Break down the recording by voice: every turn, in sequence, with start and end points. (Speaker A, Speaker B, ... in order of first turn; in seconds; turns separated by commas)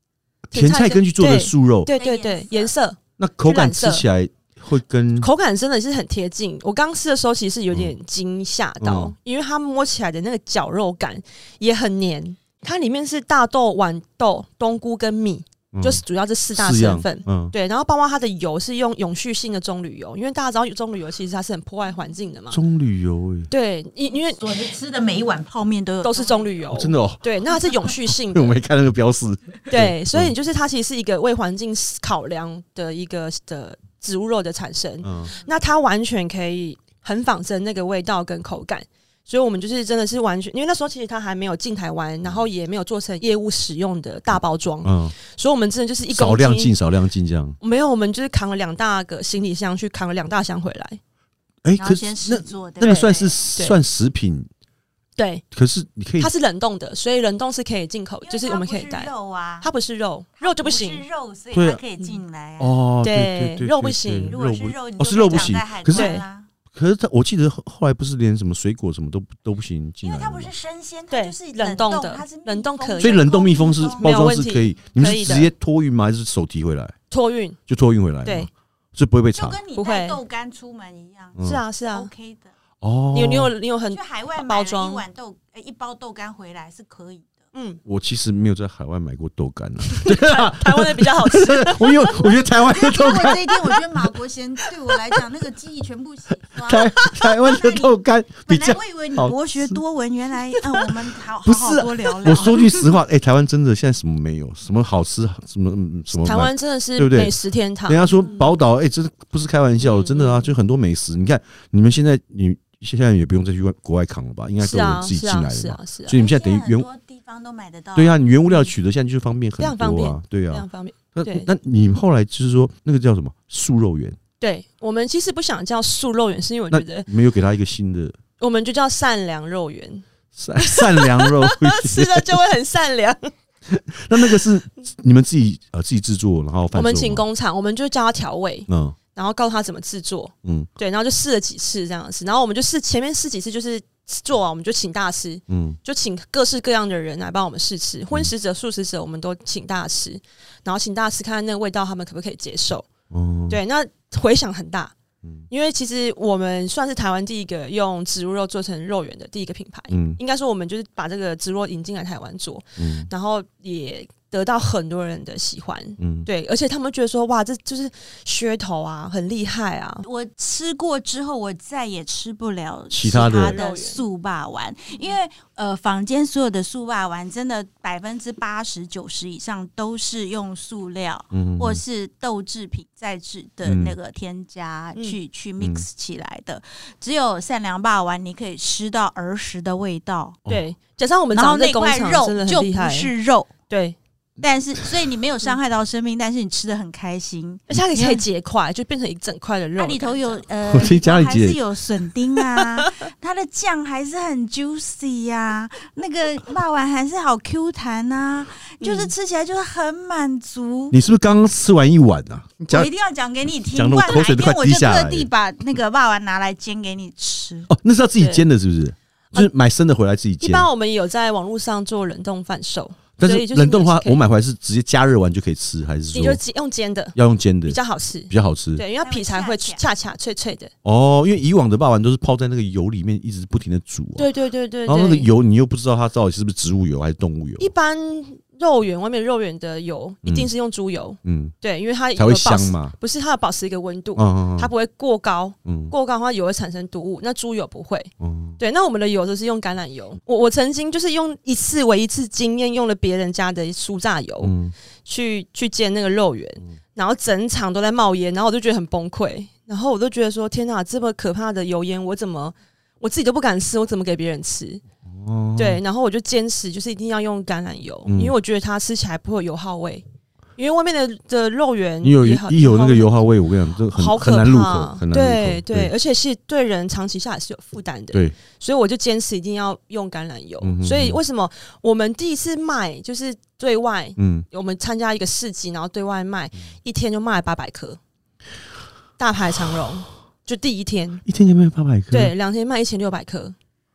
Speaker A: 0.5-1.9, Speaker B: 0.5-4.0, Speaker C: 1.9-2.7, Speaker A: 3.2-5.3, Speaker B: 5.2-22.6, Speaker A: 8.8-9.1, Speaker A: 15.7-16.0, Speaker A: 16.5-17.5, Speaker A: 22.5-23.5, Speaker B: 23.5-24.4, Speaker C: 24.4-26.6, Speaker B: 26.0-28.5, Speaker A: 26.7-27.2, Speaker A: 27.8-30.3, Speaker B: 29.7-46.7, Speaker A: 35.0-35.3, Speaker A: 44.8-45.1, Speaker A: 46.1-47.6, Speaker B: 47.6-51.0, Speaker A: 51.6-54.5, Speaker C: 51.8-53.4, Speaker B: 52.8-53.8, Speaker B: 55.2-55.4, Speaker A: 55.5-56.3, Speaker B: 56.2-61.0, Speaker C: 58.2-59.7, Speaker C: 60.4-62.8, Speaker A: 61.5-61.8, Speaker A: 62.6-66.1, Speaker B: 63.0-64.3, Speaker C: 64.2-66.5, Speaker B: 65.9-66.2, Speaker A: 66.7-70.5, Speaker C: 70.0-74.3, Speaker B: 71.1-75.5, Speaker A: 73.0-76.9, Speaker B: 77.1-77.6, Speaker A: 77.7-79.6, Speaker C: 79.3-82.5, Speaker B: 79.8-80.2, Speaker B: 81.4-82.1, Speaker A: 82.8-83.5, Speaker B: 83.1-85.0, Speaker C: 83.9-87.3, Speaker B: 87.5-87.8, Speaker A: 87.8-94.1, Speaker B: 89.9-92.2, Speaker C: 92.7-102.9, Speaker A: 96.6-99.8, Speaker A: 101.4-107.3, Speaker B: 106.1-108.5, Speaker A: 107.9-116.9, Speaker B: 109.8-110.5, Speaker B: 114.6-116.2, Speaker C: 116.1-118.2, Speaker A: 117.9-124.2, Speaker B: 119.6-121.5, Speaker B: 124.4-127.1, Speaker A: 126.7-128.2, Speaker B: 128.4-130.0, Speaker A: 130.3-132.3, Speaker B: 130.6-133.3, Speaker A: 133.7-137.2, Speaker B: 136.7-152.9, Speaker A: 138.7-138.9, Speaker A: 140.4-140.7, Speaker A: 145.5-145.8, Speaker A: 153.1-153.6, Speaker B: 153.5-154.9, Speaker B: 155.5-170.1, Speaker A: 159.9-160.2, Speaker A: 162.8-163.1, Speaker A: 166.0-166.3, Speaker C: 170.0-190.4, Speaker A: 172.9-173.6, Speaker B: 173.1-174.0, Speaker A: 181.3-181.8, Speaker A: 183.6-184.0, Speaker A: 185.6-185.8, Speaker B: 190.5-193.1, Speaker C: 191.3-193.5, Speaker B: 193.7-193.9, Speaker C: 194.4-198.2, Speaker B: 197.7-200.4, Speaker C: 199.8-211.0, Speaker A: 200.7-201.6, Speaker B: 202.6-203.1, Speaker B: 208.8-209.1, Speaker A: 210.9-212.9, Speaker C: 212.7-217.7, Speaker A: 213.7-215.3, Speaker A: 217.7-220.7, Speaker B: 218.2-218.4, Speaker B: 220.4-224.2, Speaker A: 223.2-226.4, Speaker B: 226.1-230.7, Speaker A: 227.1-228.8, Speaker C: 229.0-229.8, Speaker A: 230.8-234.3, Speaker B: 234.2-235.3, Speaker A: 234.8-237.7, Speaker B: 237.6-254.5, Speaker A: 241.2-241.5, Speaker A: 242.2-242.9, Speaker A: 244.2-244.7, Speaker A: 245.6-245.9, Speaker A: 248.2-248.6, Speaker A: 254.4-254.7, Speaker B: 255.0-264.8, Speaker A: 265.1-265.8, Speaker B: 265.6-270.0, Speaker A: 268.1-268.3, Speaker B: 270.6-273.2, Speaker A: 272.0-275.9, Speaker B: 273.9-288.0, Speaker A: 280.6-281.2, Speaker A: 284.2-284.4, Speaker B: 289.2-291.2, Speaker A: 291.2-292.3, Speaker B: 292.1-293.5